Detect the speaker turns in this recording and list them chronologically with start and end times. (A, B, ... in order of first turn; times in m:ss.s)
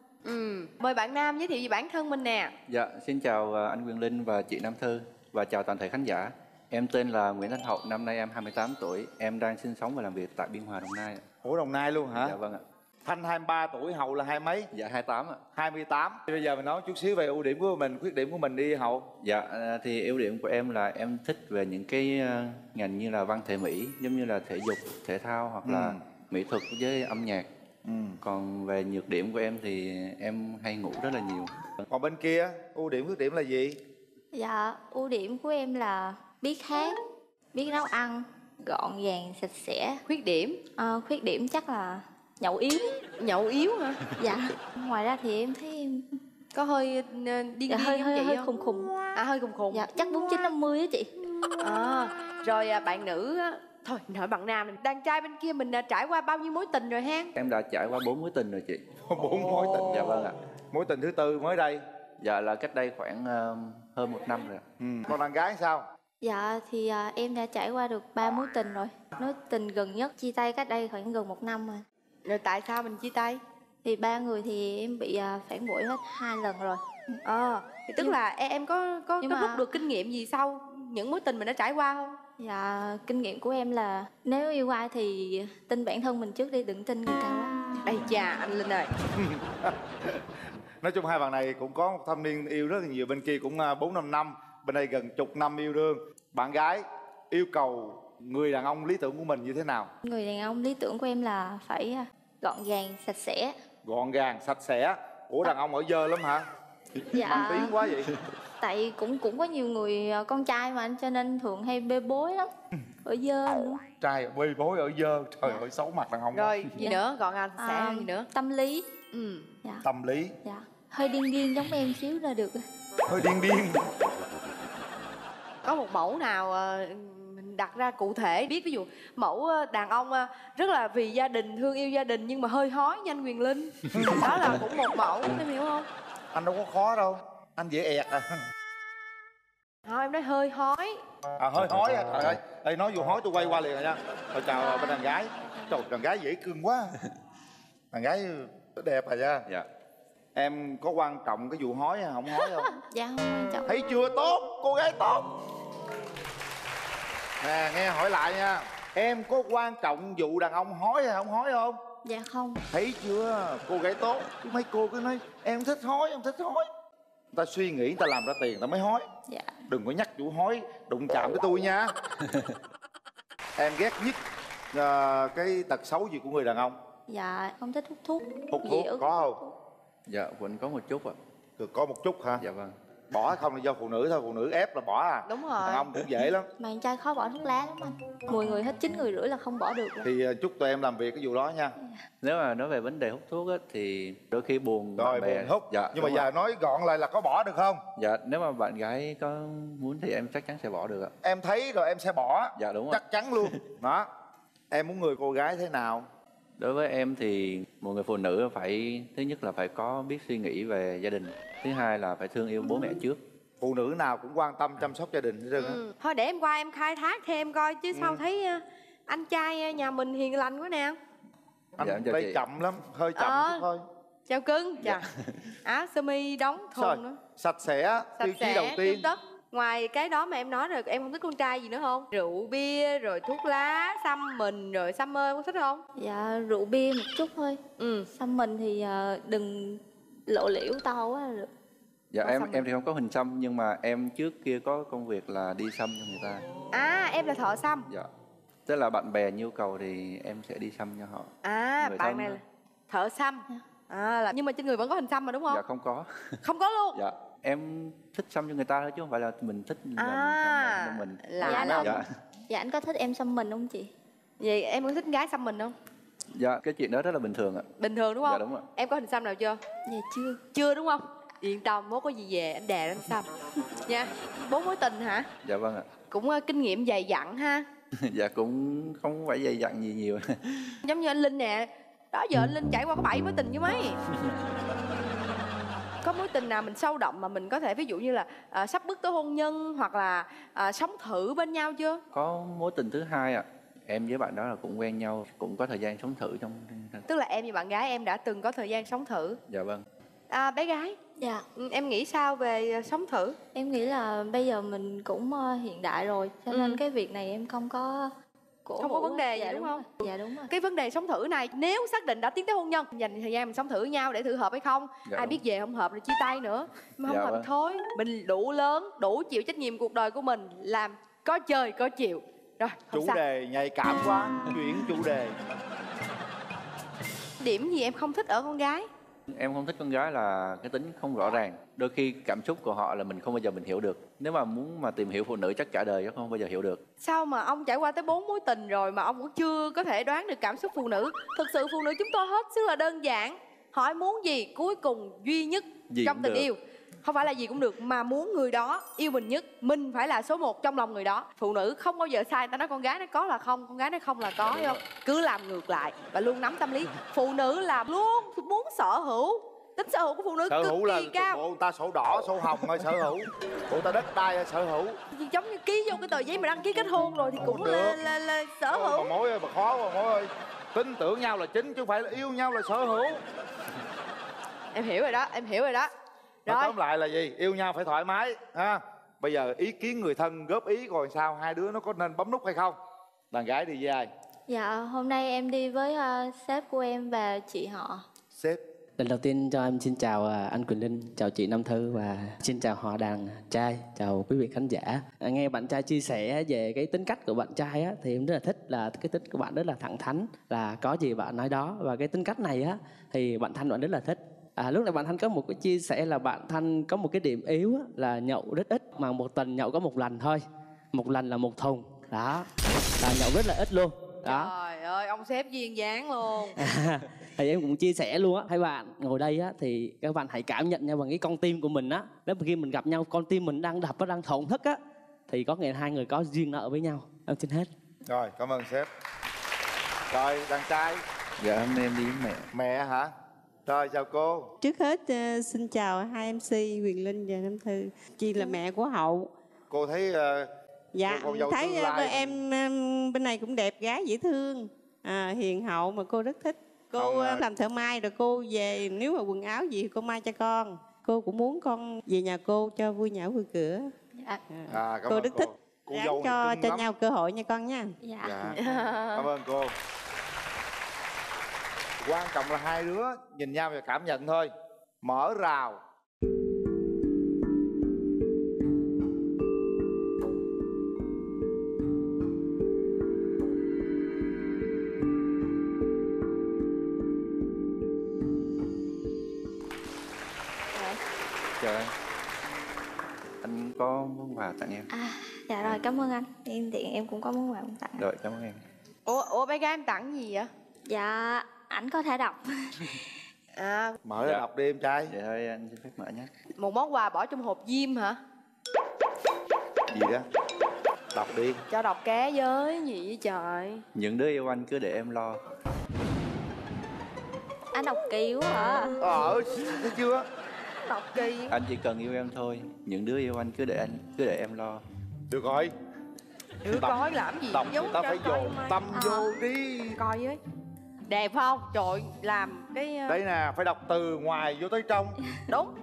0:00.2-0:02.5 A
0:02.7-0:11.2 B
0:11.4-0:12.4 C
0:12.2-0:12.6 B
0:13.0-0:14.7 C
0:14.7-0:15.4 B
0:15.6-0:19.0 C
0:19.2-0:27.5 B
0:25.6-0:26.0 C
0:27.8-0:28.2 C
0:28.2-0:31.5 B
0:31.9-0:33.8 C
0:34.3-0:37.0 D
0:37.5-0:40.0 D
0:40.1-0:40.6 A
0:40.8-0:43.0 D
0:43.2-0:44.0 A
0:44.2-0:46.0 D
0:46.5-0:48.5 A
0:47.7-0:49.0 D
0:49.0-0:49.9 A
0:49.7-0:51.1 D
0:51.6-0:57.3 A
0:57.3-0:58.8 B
0:59.1-1:00.0 C
0:59.6-1:00.2 A
0:59.9-1:00.4 B
1:00.7-1:01.8 C
1:02.2-1:04.6 B
1:04.8-1:05.8 C
1:06.2-1:11.8 D
1:12.2-1:13.4 A
1:13.8-1:17.2 D
1:17.3-1:22.1 A
1:19.2-1:19.7 D
1:22.4-1:27.5 D
1:27.8-1:28.9 A
1:29.1-1:30.2 C
1:30.8-1:39.9 C
1:40.0-1:43.5 D
1:43.8-1:46.4 C
1:47.1-1:47.9 D
1:47.3-1:48.1 C
1:48.6-1:52.5 D
1:53.0-1:53.8 D
1:54.0-1:56.6 C
1:56.3-1:58.3 A
1:56.8-1:57.0 D
1:57.6-1:58.8 D
1:59.1-1:59.5 A
1:59.8-2:00.3 C
2:00.4-2:02.6 D
2:03.1-2:03.8 C
2:05.6-2:15.9 A
2:13.9-2:14.3 C
2:16.3-2:18.3 C
2:19.8-2:21.0 A
2:21.4-2:27.0 C
2:24.5-2:25.8 D
2:27.9-2:29.5 C
2:30.3-2:32.7 C
2:32.4-2:33.7 D
2:33.7-2:35.3 C
2:37.4-2:41.8 C
2:42.0-2:42.6 D
2:42.7-2:46.7 C
2:47.3-2:49.0 C
2:49.3-2:49.6 D
2:49.7-2:51.9 C
2:53.6-2:54.2 C
2:54.7-2:56.7 C
2:57.1-2:59.5 D
2:58.5-2:59.4 C
3:00.1-3:01.2 B
3:01.6-3:02.4 C
3:02.4-3:02.7 B
3:03.1-3:06.5 C
3:05.2-3:05.9 A
3:06.6-3:10.1 D
3:10.0-3:11.7 C
3:12.2-3:16.3 B
3:15.0-3:17.8 C
3:18.0-3:21.1 B
3:21.2-3:24.1 C
3:22.6-3:23.6 B
3:24.7-3:26.0 C
3:26.6-3:33.2 B
3:33.6-3:35.8 C
3:35.6-3:41.0 A
3:37.9-3:38.2 C
3:41.8-3:43.8 C
3:41.8-3:42.4 B
3:43.2-3:43.6 A
3:44.3-3:45.0 A
3:44.8-3:45.5 B
3:45.6-3:47.2 A
3:46.8-3:49.1 C
3:48.2-3:55.8 A
3:56.0-3:57.6 D
3:57.8-3:58.1 A
3:58.1-4:01.5 D
4:02.1-4:06.4 B
4:02.2-4:02.7 A
4:06.7-4:07.9 A
4:08.6-4:12.4 B
4:11.4-4:15.6 A
4:15.5-4:16.4 B
4:16.4-4:17.0 A
4:16.9-4:22.1 B
4:20.0-4:22.0 A
4:21.4-4:23.9 D
4:24.4-4:25.7 A
4:26.3-4:27.7 B
4:27.8-4:29.6 A
4:28.2-4:28.6 B
4:29.8-4:30.4 D
4:30.5-4:33.3 A
4:33.9-4:35.3 A
4:35.4-4:36.0 B
4:36.1-4:37.6 A
4:38.0-4:40.8 B
4:40.8-4:44.0 A
4:46.0-4:52.0 A
4:52.1-4:57.0 B
4:57.1-4:59.4 A
4:59.5-4:59.8 B
5:00.3-5:01.0 A
5:01.2-5:01.4 D
5:01.6-5:03.4 A
5:03.5-5:08.1 D
5:06.5-5:06.8 A
5:08.6-5:10.5 D
5:08.8-5:09.9 A
5:10.5-5:23.2 A
5:15.0-5:15.4 B
5:17.0-5:17.5 B
5:22.9-5:25.4 C
5:27.4-5:28.9 A
5:29.3-5:36.8 B
5:37.0-6:01.4 A
5:45.9-5:46.5 B
5:54.5-5:54.8 B
6:00.5-6:05.0 C
6:05.1-6:09.1 A
6:07.4-6:08.0 C
6:08.7-6:13.2 C
6:14.7-6:15.9 A
6:16.4-6:16.7 A
6:16.5-6:22.8 C
6:23.3-6:24.1 C
6:24.5-6:28.0 D
6:28.3-6:28.6 C
6:29.0-6:50.4 E
6:50.9-6:54.5 E
6:54.2-6:56.6 A
6:56.6-7:07.7 E
7:08.0-7:08.9 C
7:10.1-7:11.0 C
7:11.4-7:12.5 B
7:12.5-7:13.1 C
7:13.6-7:14.4 C
7:14.6-7:19.3 F
7:19.7-7:20.5 C
7:20.9-7:33.9 F
7:21.0-7:22.4 C
7:27.0-7:27.4 C
7:34.5-7:38.6 F
7:34.7-7:36.9 C
7:38.0-7:38.4 D
7:38.2-7:38.6 C
7:38.6-7:39.2 A
7:39.1-7:39.7 C
7:42.0-7:44.5 C
7:45.0-7:45.8 C
8:01.6-8:01.9 B
8:03.4-8:04.9 B
8:04.9-8:08.0 D
8:08.0-8:08.6 B
8:09.1-8:10.5 A
8:10.9-8:13.0 D
8:13.6-8:14.0 A
8:14.0-8:15.1 C
8:15.0-8:16.3 B
8:16.6-8:18.2 A
8:19.9-8:20.2 C
8:21.1-8:21.6 C
8:21.7-8:23.8 A
8:23.9-8:25.4 B
8:27.7-8:29.0 D
8:29.0-8:30.2 C
8:30.8-8:31.5 A
8:31.5-8:34.8 B
8:35.3-8:35.7 C
8:36.6-8:38.8 A
8:36.7-8:37.0 C
8:37.5-8:40.0 C
8:38.9-8:39.3 D
8:40.0-8:40.4 A
8:41.1-8:43.2 A
8:43.1-8:45.2 C